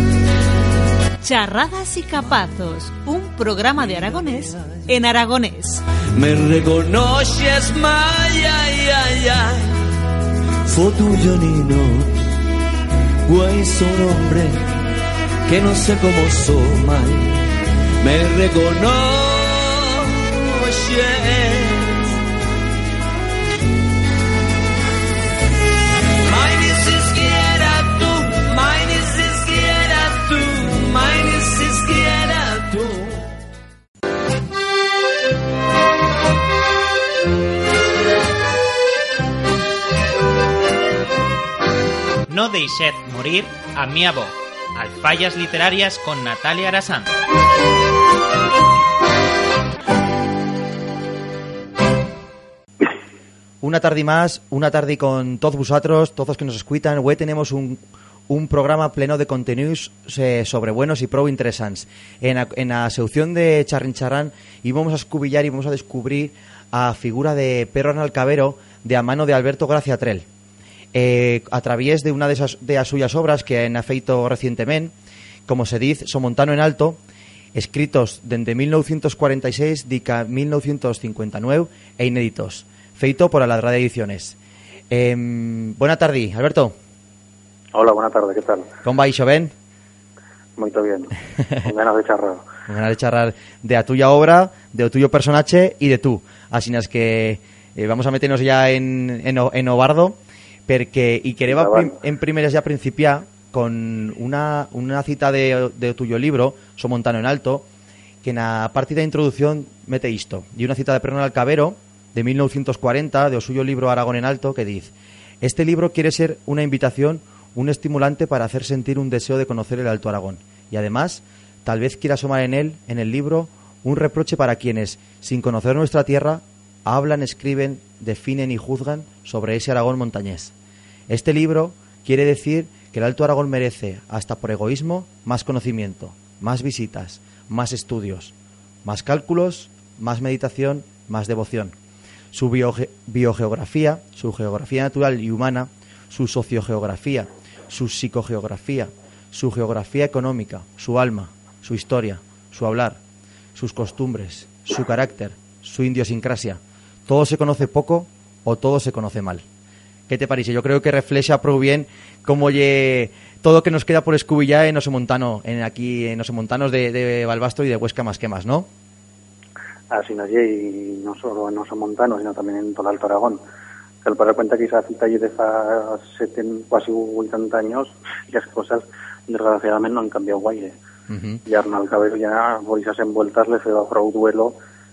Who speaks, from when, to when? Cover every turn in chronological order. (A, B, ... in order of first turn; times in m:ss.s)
0:01.2-0:05.8 A
0:06.1-0:09.7 B
0:10.7-0:12.2 B
0:13.2-0:14.6 B
0:15.5-0:17.5 B
0:18.0-0:22.2 B
0:26.2-0:33.2 B
0:42.3-0:47.1 C
0:53.6-1:10.2 D
1:10.9-1:14.9 D
1:15.5-1:17.0 D
1:17.5-1:24.4 D
1:24.9-1:26.7 D
1:27.7-1:28.7 E
1:28.8-1:29.5 D
1:30.6-1:32.4 E
1:32.7-1:47.6 D
1:41.5-1:41.9 E
1:48.2-2:10.5 D
2:11.1-2:18.3 D
2:18.8-2:21.7 D
2:22.3-2:33.0 D
2:33.5-2:39.4 D
2:40.1-2:48.7 D
2:49.9-2:53.4 E
2:54.0-3:00.8 E
3:01.1-3:01.4 D
3:01.4-3:04.6 E